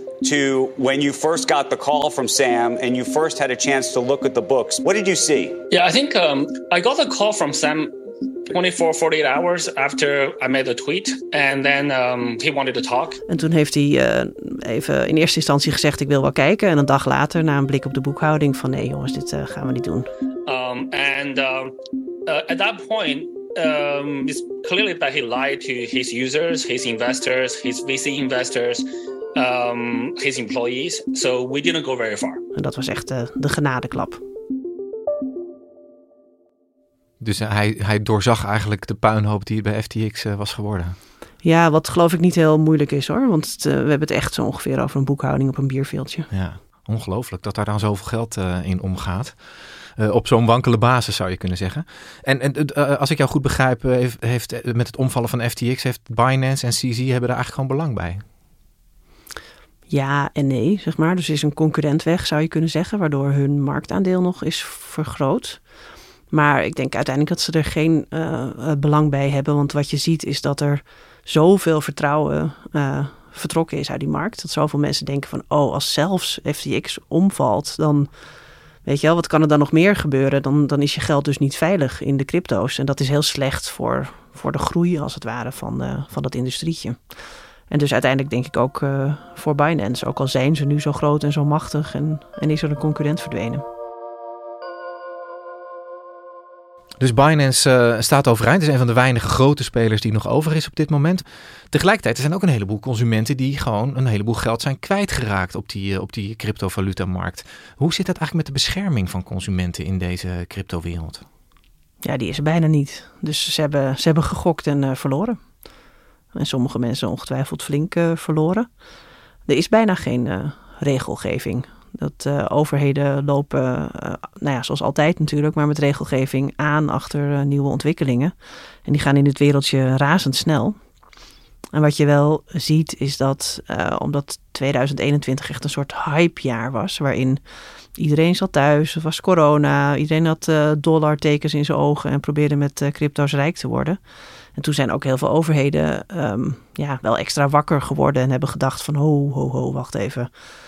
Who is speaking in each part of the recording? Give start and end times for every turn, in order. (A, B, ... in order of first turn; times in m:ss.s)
0:00.2-0:05.6 A
0:05.7-0:07.9 B
0:08.5-0:13.2 B
0:13.3-0:20.1 C
0:20.5-0:21.7 B
0:22.3-0:32.4 B
0:32.5-0:34.2 C
0:37.2-0:41.0 D
0:41.4-0:46.3 C
0:46.3-0:49.4 D
0:50.0-0:58.2 D
0:59.9-1:05.6 C
1:06.3-1:18.1 C
1:18.8-1:27.0 C
1:27.7-1:33.6 C
1:37.0-1:51.2 D
1:52.0-1:55.4 C
1:56.3-1:58.7 C
1:59.4-2:08.3 C
2:08.8-2:10.8 C
2:11.7-2:17.4 C
2:18.0-2:24.0 C
2:24.5-2:30.3 C